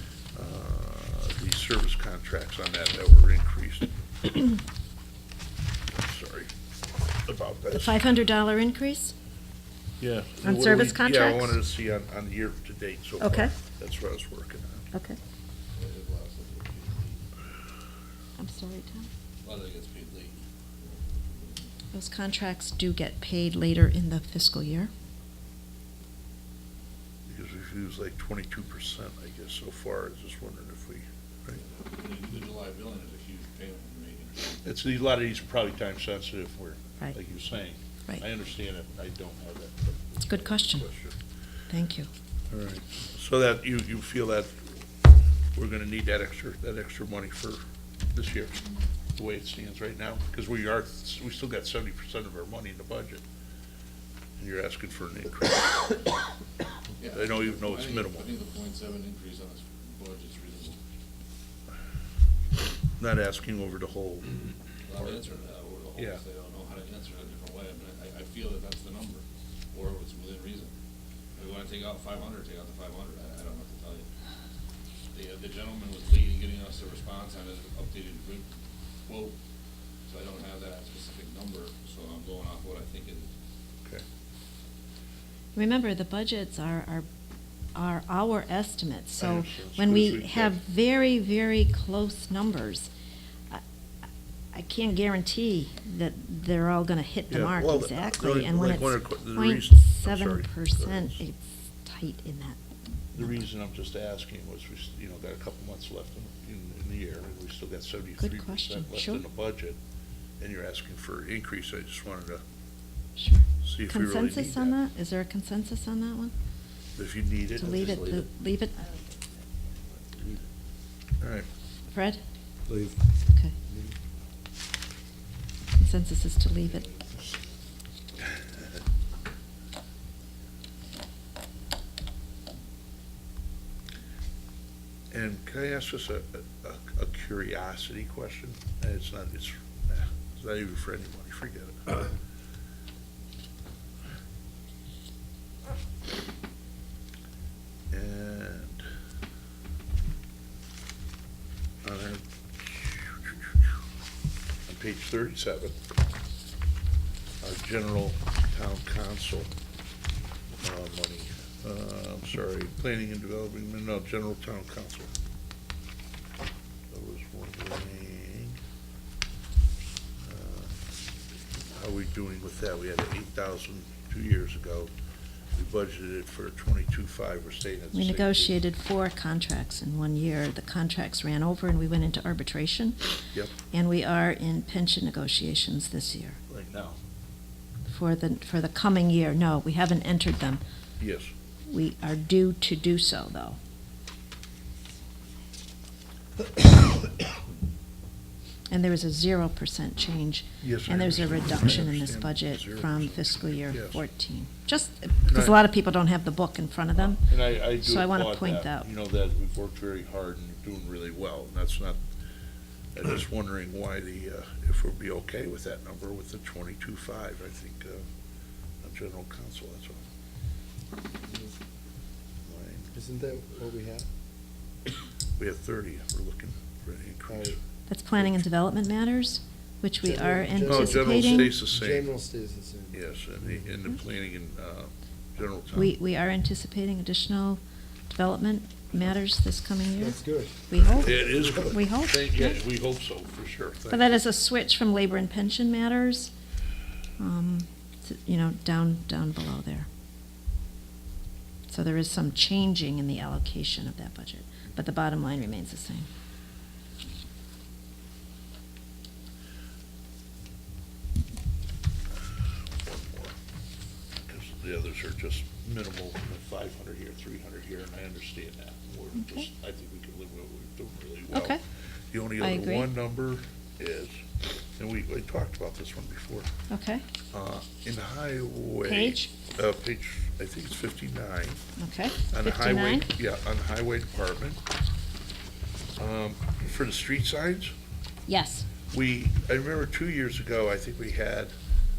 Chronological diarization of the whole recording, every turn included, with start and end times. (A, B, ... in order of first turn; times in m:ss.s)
0:00.3-0:03.9 A
0:05.9-0:06.5 A
0:07.2-0:08.0 A
0:07.7-0:09.1 B
0:10.0-0:14.9 A
0:10.4-0:11.6 B
0:13.2-0:13.5 B
0:14.9-0:15.2 B
0:15.8-0:17.2 C
0:18.4-0:19.1 B
0:19.4-0:21.7 C
0:21.9-0:24.9 B
0:27.3-0:31.6 A
0:31.6-0:34.6 C
0:34.6-0:41.2 A
0:40.2-0:40.8 B
0:41.7-0:42.1 B
0:42.5-0:44.5 A
0:45.5-0:47.6 A
0:48.1-0:48.6 A
0:49.1-0:53.2 A
0:54.4-0:56.0 A
0:57.0-1:00.8 C
0:57.1-0:58.3 A
1:03.0-1:05.3 A
1:04.8-1:10.7 C
1:06.0-1:06.2 A
1:11.4-1:14.0 C
1:15.1-1:18.5 C
1:19.1-1:19.3 C
1:20.1-1:23.3 C
1:25.5-1:27.1 B
1:27.7-1:32.9 B
1:29.2-1:30.6 A
1:34.5-1:42.6 B
1:37.3-1:41.2 A
1:43.1-1:49.8 A
1:48.2-1:49.2 B
1:50.4-1:52.4 A
1:53.2-1:56.3 B
1:53.6-1:54.8 A
1:57.0-1:58.0 A
1:57.6-1:58.8 B
2:01.2-2:01.5 A
2:01.9-2:02.2 B
2:02.7-2:03.0 D
2:03.7-2:03.9 D
2:05.8-2:06.8 B
2:06.7-2:07.1 C
2:15.1-2:22.1 A
2:27.9-2:28.9 A
2:31.8-2:33.7 A
2:34.7-2:35.8 A
2:37.4-2:39.5 A
2:40.6-2:45.1 A
2:46.9-2:48.6 A
2:50.2-2:50.7 A
2:51.7-2:54.9 A
2:55.5-2:58.6 A
2:57.9-3:03.0 B
3:03.6-3:06.4 B
3:06.5-3:07.0 A
3:07.9-3:10.6 B
3:11.0-3:11.3 A
3:11.7-3:13.6 B
3:18.7-3:28.9 B
3:20.6-3:24.0 A
3:25.2-3:25.6 A
3:26.9-3:32.0 A
3:32.9-3:38.0 A
3:38.8-3:40.0 A
3:41.3-3:41.5 D
3:42.4-3:42.9 A
3:42.9-3:44.1 D
3:45.4-3:47.6 A
3:47.3-3:47.6 D
3:47.9-3:51.5 B
3:48.2-3:48.4 A
3:50.0-3:53.0 D
3:50.6-3:52.1 A
3:52.9-3:56.0 A
3:55.7-4:02.6 B
4:00.0-4:01.6 D
4:00.9-4:04.2 A
4:03.9-4:06.3 B
4:07.2-4:09.9 B
4:11.7-4:16.1 B
4:22.3-4:23.4 A
4:24.2-4:31.6 A
4:31.3-4:31.6 B
4:32.1-4:36.5 A
4:32.4-4:32.9 B
4:36.7-4:37.0 B
4:37.3-4:41.6 A
4:38.8-4:39.4 B
4:41.8-4:43.1 B
4:42.3-4:44.6 A
4:46.0-4:47.7 A
4:48.3-4:48.7 B
4:48.9-4:51.5 A